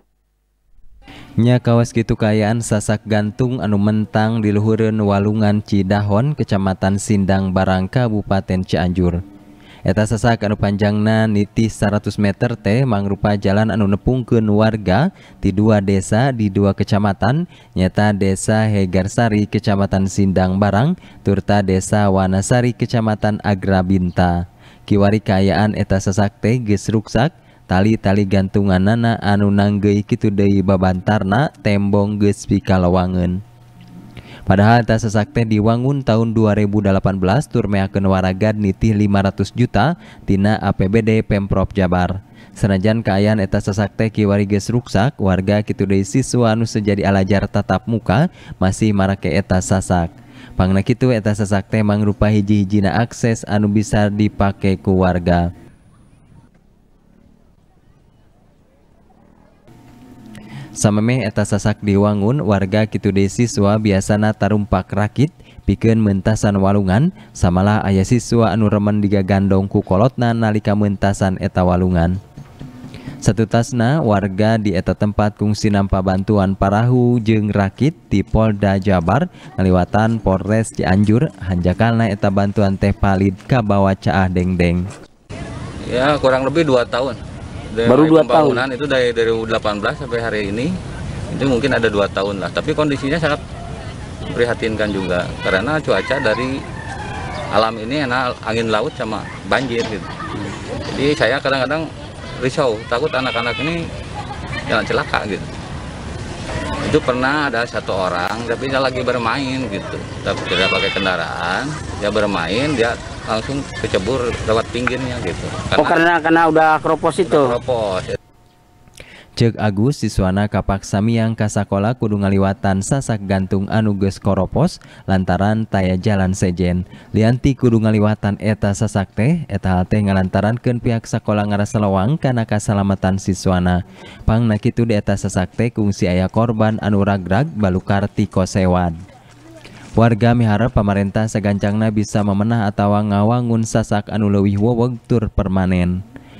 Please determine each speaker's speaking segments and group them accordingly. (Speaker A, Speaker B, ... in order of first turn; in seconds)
Speaker A: 1.4-9.2, 9.8-33.4, 34.5-55.5, 60.8-72.2, 73.2-84.8, 119.3-138.9, 140.0-146.0
Speaker B: 85.8-87.2, 87.7-90.7, 91.3-93.4, 94.3-96.6, 97.5-100.1, 100.9-101.9, 102.4-103.8, 104.7-105.5, 106.8-116.0, 117.2-118.2
Speaker C: 87.8-88.6, 115.8-117.5